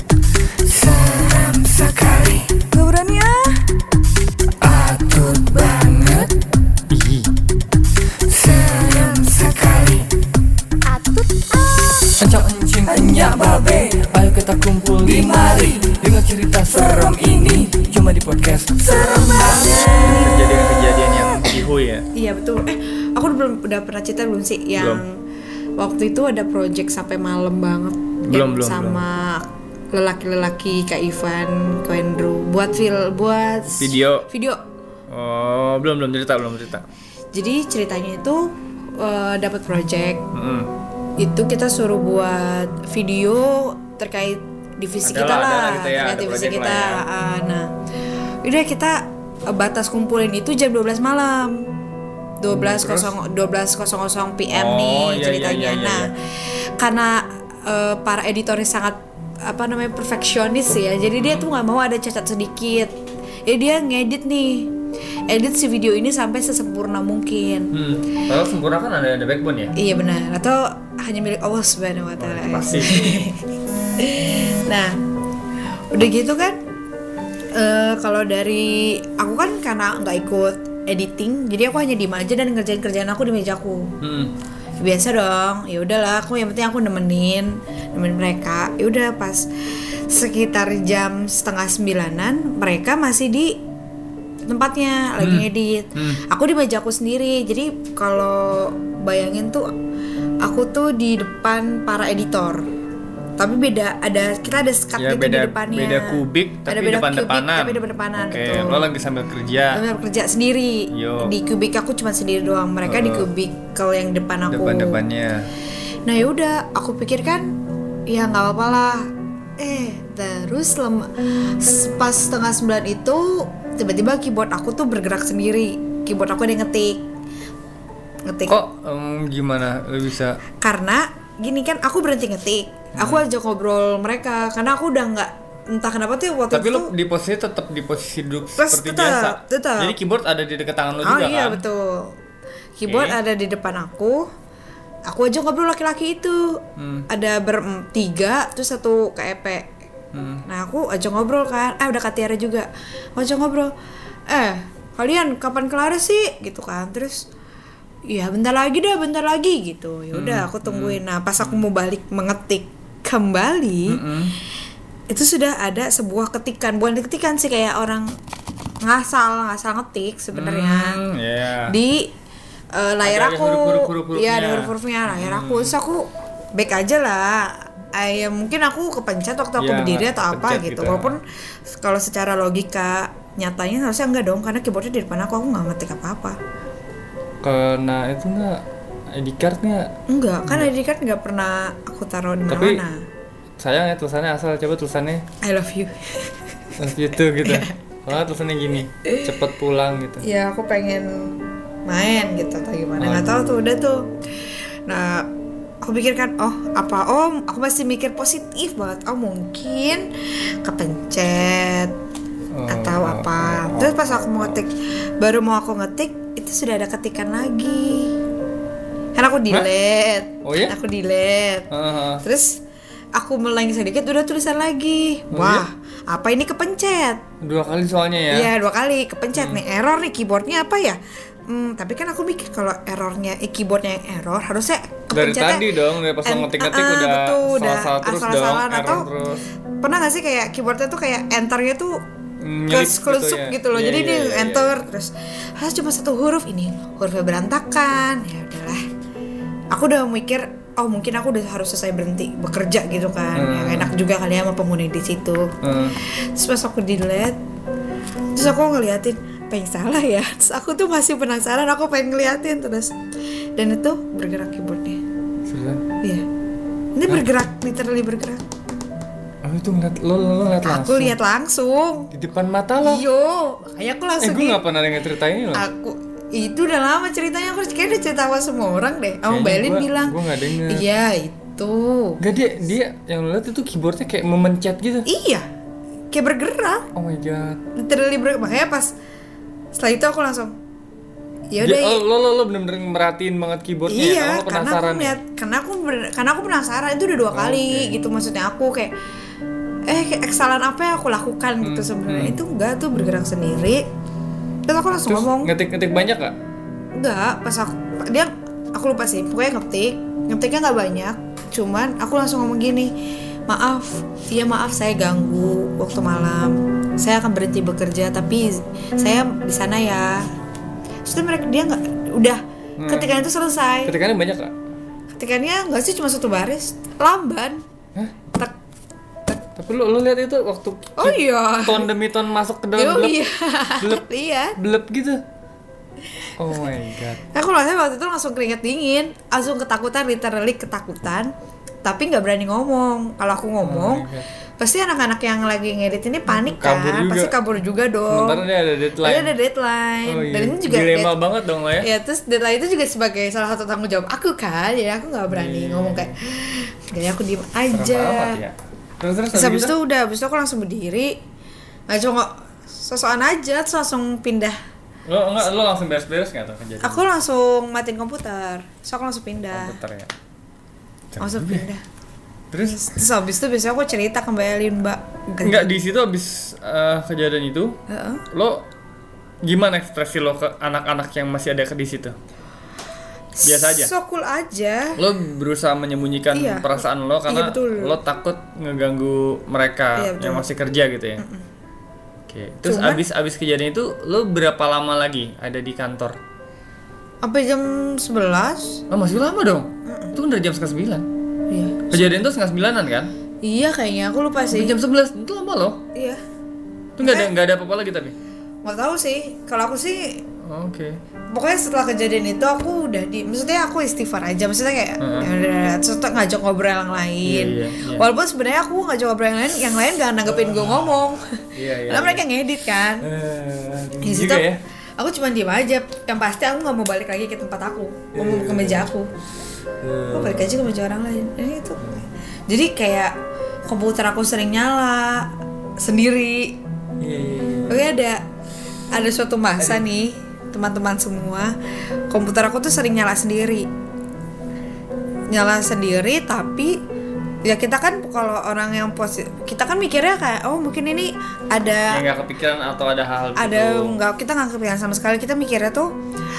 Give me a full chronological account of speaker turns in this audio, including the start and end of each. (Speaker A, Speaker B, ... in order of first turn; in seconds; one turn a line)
Speaker A: 0.7-2.6
Speaker B: 2.6-3.8
Speaker A: 4.6-6.3
Speaker A: 6.9-7.3
Speaker A: 8.2-10.1
Speaker B: 10.9-12.1
Speaker A: 12.2-22.1
Speaker B: 19.2-19.9
Speaker B: 22.1-25.2
Speaker A: 24.8-25.0
Speaker B: 25.8-34.6
Speaker A: 28.2-29.1
Speaker A: 33.8-34.3
Speaker A: 35.1-36.9
Speaker B: 37.3-40.3
Speaker A: 40.3-40.7
Speaker B: 41.2-47.7
Speaker A: 45.0-47.0
Speaker B: 48.4-51.7
Speaker B: 52.4-62.9
Speaker A: 52.5-53.1
Speaker A: 54.5-56.1
Speaker A: 61.2-61.5
Speaker B: 63.5-64.7
Speaker B: 65.3-67.8
Speaker A: 67.7-69.7
Speaker B: 69.8-73.4
Speaker A: 72.2-73.3
Speaker B: 74.0-75.0
Speaker B: 75.9-76.6
Speaker B: 77.6-83.9
Speaker A: 84.0-84.3
Speaker B: 84.8-93.6
Speaker B: 94.5-99.7
Speaker A: 95.2-96.2
Speaker B: 100.4-102.7
Speaker B: 103.4-108.9
Speaker A: 105.0-109.8
Speaker B: 109.7-115.0
Speaker A: 110.9-111.3
Speaker A: 112.8-113.3
Speaker A: 114.5-115.5
Speaker B: 116.1-117.5
Speaker B: 118.1-121.1
Speaker B: 121.6-127.0
Speaker B: 128.3-128.6
Speaker A: 128.5-130.4
Speaker B: 130.6-136.9
Speaker A: 133.0-133.3
Speaker A: 136.5-141.6
Speaker B: 138.6-139.9
Speaker B: 141.0-142.2
Speaker B: 142.8-144.3
Speaker A: 142.9-143.2
Speaker B: 145.1-149.7
Speaker A: 146.8-147.1
Speaker A: 150.1-150.4
Speaker B: 150.5-153.7
Speaker B: 154.3-157.3
Speaker B: 158.1-164.0
Speaker A: 160.1-161.6
Speaker A: 163.9-164.3
Speaker B: 165.1-168.2
Speaker B: 168.8-171.0
Speaker A: 170.3-171.8
Speaker B: 171.7-172.1
Speaker B: 172.7-186.4
Speaker A: 173.0-175.8
Speaker A: 179.6-181.2
Speaker A: 187.4-189.9
Speaker B: 190.1-193.0
Speaker A: 190.4-190.7
Speaker A: 192.5-192.8
Speaker A: 193.6-195.2
Speaker B: 195.4-196.7
Speaker A: 196.8-200.3
Speaker B: 197.4-197.8
Speaker B: 199.1-199.3
Speaker B: 200.2-205.3
Speaker A: 203.0-203.8
Speaker B: 205.8-210.1
Speaker B: 210.6-211.9
Speaker A: 212.5-214.6
Speaker B: 212.7-218.2
Speaker B: 219.2-222.6
Speaker A: 220.4-220.8
Speaker A: 221.7-222.2
Speaker B: 223.2-227.2
Speaker A: 225.3-225.7
Speaker A: 227.4-228.5
Speaker B: 228.3-239.1
Speaker A: 229.3-229.6
Speaker A: 235.1-239.4
Speaker B: 239.8-242.0
Speaker A: 242.4-244.8
Speaker B: 242.7-248.8
Speaker B: 249.7-257.4
Speaker A: 253.4-253.9
Speaker A: 255.6-256.0
Speaker B: 258.3-263.0
Speaker B: 263.6-265.0
Speaker A: 265.5-265.9
Speaker B: 267.0-268.4
Speaker A: 269.4-271.2
Speaker B: 270.6-272.1
Speaker A: 272.1-273.1
Speaker B: 272.8-274.6
Speaker A: 274.2-275.7
Speaker B: 275.5-282.2
Speaker A: 279.3-280.9
Speaker A: 282.2-285.1
Speaker B: 285.1-285.5
Speaker B: 286.1-286.9
Speaker A: 286.9-287.6
Speaker B: 287.8-288.9
Speaker B: 289.7-290.6
Speaker B: 291.5-292.0
Speaker A: 291.6-295.2
Speaker B: 293.9-298.9
Speaker A: 297.3-298.0
Speaker B: 299.9-303.9
Speaker A: 301.6-302.4
Speaker B: 304.7-305.5
Speaker A: 305.1-306.4
Speaker B: 307.0-313.0
Speaker B: 313.5-320.3
Speaker B: 321.1-324.0
Speaker A: 322.8-323.2
Speaker A: 323.9-324.6
Speaker B: 325.2-327.6
Speaker A: 329.6-333.2
Speaker B: 331.0-331.9
Speaker B: 332.8-334.6
Speaker A: 333.8-334.1
Speaker A: 334.6-335.2
Speaker A: 336.4-337.2
Speaker B: 337.3-341.3
Speaker B: 341.8-348.5
Speaker A: 343.6-344.3
Speaker A: 346.3-347.4
Speaker A: 348.1-349.3
Speaker B: 349.0-351.2
Speaker A: 350.1-351.9
Speaker B: 351.8-358.4
Speaker A: 355.3-356.2
Speaker A: 357.7-359.8
Speaker B: 359.3-361.2
Speaker B: 361.9-364.6
Speaker A: 365.1-367.1
Speaker B: 366.8-369.8
Speaker A: 369.5-370.1
Speaker A: 371.1-371.7
Speaker B: 371.2-371.8
Speaker A: 372.5-372.9
Speaker B: 372.6-375.7
Speaker A: 375.4-377.8
Speaker B: 377.9-378.2
Speaker A: 378.3-378.6
Speaker A: 379.4-382.2
Speaker B: 383.4-385.0
Speaker A: 383.4-383.9
Speaker A: 385.0-391.2
Speaker B: 386.3-388.0
Speaker B: 390.0-390.5
Speaker B: 391.2-391.5
Speaker A: 392.3-396.2
Speaker B: 392.6-393.0
Speaker B: 397.2-398.8
Speaker A: 398.9-401.1
Speaker B: 399.9-400.1
Speaker B: 401.5-402.2
Speaker A: 401.9-403.1
Speaker B: 403.4-404.8
Speaker A: 404.5-405.8
Speaker B: 405.9-406.2
Speaker A: 407.0-408.2
Speaker B: 407.0-407.3
Speaker B: 408.6-410.2
Speaker A: 410.4-411.0
Speaker B: 411.3-423.1
Speaker A: 415.0-415.3
Speaker A: 417.2-418.1
Speaker A: 420.2-422.2
Speaker A: 423.0-424.6
Speaker B: 424.0-429.1
Speaker A: 428.1-428.9
Speaker A: 429.8-430.6
Speaker B: 430.1-433.1
Speaker A: 431.8-432.1
Speaker B: 433.7-436.6
Speaker A: 437.0-437.9
Speaker B: 437.7-438.2
Speaker B: 438.9-441.5
Speaker A: 439.6-439.9
Speaker B: 442.1-443.7
Speaker B: 445.3-446.8
Speaker B: 447.4-452.0
Speaker A: 451.9-454.0
Speaker B: 453.4-455.9